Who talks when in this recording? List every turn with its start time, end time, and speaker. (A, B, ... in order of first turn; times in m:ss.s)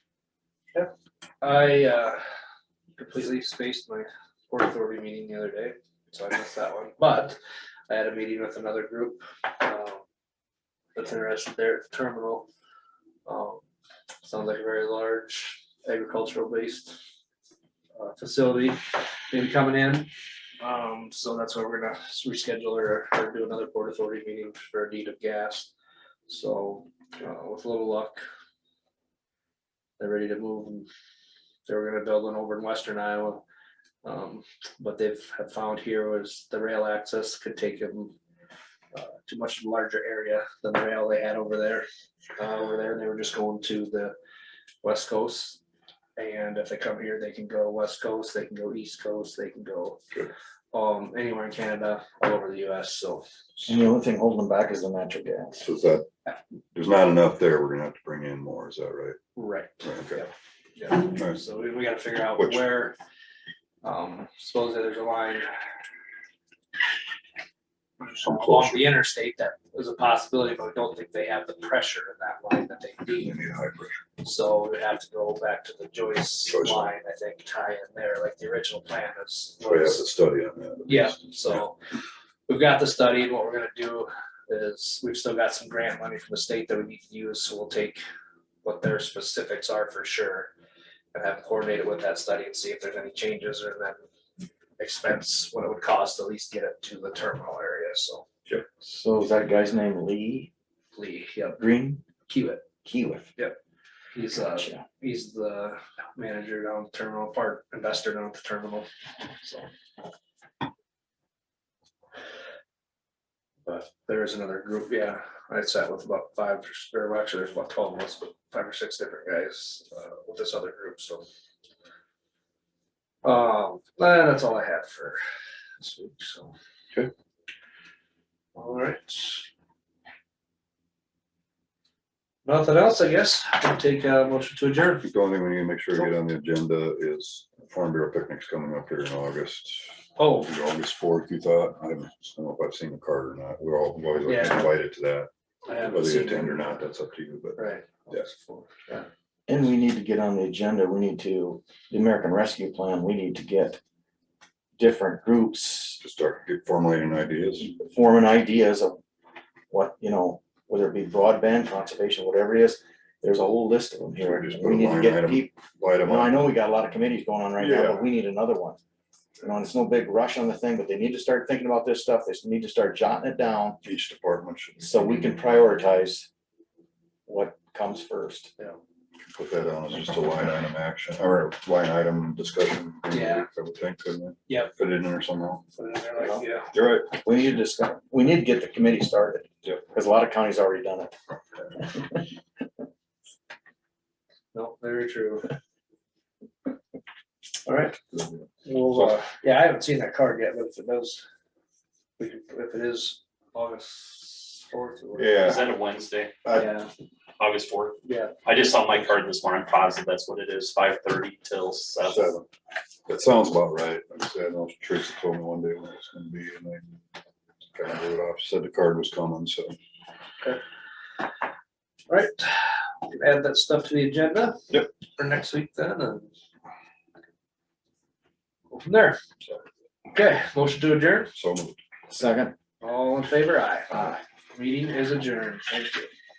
0:01.4-0:02.2 A
0:03.0-0:07.4 A
0:07.9-0:10.0 A
0:10.9-0:12.5 A
0:13.2-0:13.6 A
0:14.2-0:17.0 A
0:18.0-0:20.1 A
0:20.6-0:25.7 A
0:26.3-0:28.2 A
0:30.0-0:30.9 A
0:31.6-0:33.4 A
0:34.0-0:38.1 A
0:38.9-0:44.1 A
0:44.8-0:45.6 A
0:46.2-0:50.0 A
0:50.7-0:53.3 A
0:53.6-0:55.6 B
0:55.6-0:56.0 C
0:56.7-0:59.2 C
0:59.4-1:03.0 A
0:59.8-1:00.2 C
1:01.1-1:01.4 C
1:02.4-1:02.6 C
1:03.8-1:05.5 A
1:08.0-1:08.9 C
1:08.1-1:13.4 A
1:13.2-1:14.0 C
1:14.2-1:20.0 A
1:16.5-1:16.9 C
1:19.6-1:21.6 C
1:20.9-1:21.8 A
1:22.5-1:28.0 A
1:28.6-1:30.5 A
1:31.1-1:34.0 A
1:34.8-1:38.3 A
1:38.7-1:40.5 B
1:40.9-1:41.6 A
1:41.6-1:42.0 B
1:42.3-1:42.6 A
1:42.8-1:43.3 B
1:44.1-1:48.9 A
1:44.5-1:44.8 B
1:49.4-1:49.7 A
1:53.6-2:01.2 A
2:03.2-2:05.2 A
2:05.8-2:06.5 A
2:08.5-2:09.4 A
2:12.4-2:15.0 A
2:15.0-2:28.2 C
2:20.2-2:20.5 A
2:24.2-2:24.7 A
2:25.6-2:26.9 A
2:27.6-2:29.1 A
2:29.5-2:33.8 B
2:34.8-2:36.0 B
2:36.0-2:37.7 C
2:37.6-2:39.0 B
2:39.7-2:45.5 B
2:44.2-2:46.5 C
2:46.0-2:48.8 B
2:47.6-2:48.0 C
2:49.4-2:53.8 B
2:53.8-2:55.8 C
2:54.8-2:56.3 B
2:57.2-2:58.5 B
2:59.3-3:05.6 C
3:03.1-3:03.5 A
3:05.8-3:06.7 A
3:06.2-3:06.4 B
3:06.7-3:07.2 C
3:07.1-3:11.1 B
3:11.8-3:12.2 B
3:14.5-3:15.5 A
3:17.6-3:18.0 A
3:18.6-3:21.2 A
3:22.2-3:25.6 A
3:25.1-3:25.7 C
3:25.4-3:26.4 D
3:26.4-3:26.7 C
3:26.5-3:26.9 A
3:27.4-3:32.3 D
3:28.0-3:28.3 A
3:32.0-3:32.4 C
3:33.1-3:36.9 C
3:37.7-3:39.8 C
3:42.1-3:44.6 A
3:45.2-3:46.3 A
3:48.7-3:49.2 A
3:50.1-3:51.3 A
3:51.3-3:51.8 C
3:52.1-3:52.5 B
3:52.8-3:56.1 A
3:53.9-3:54.2 B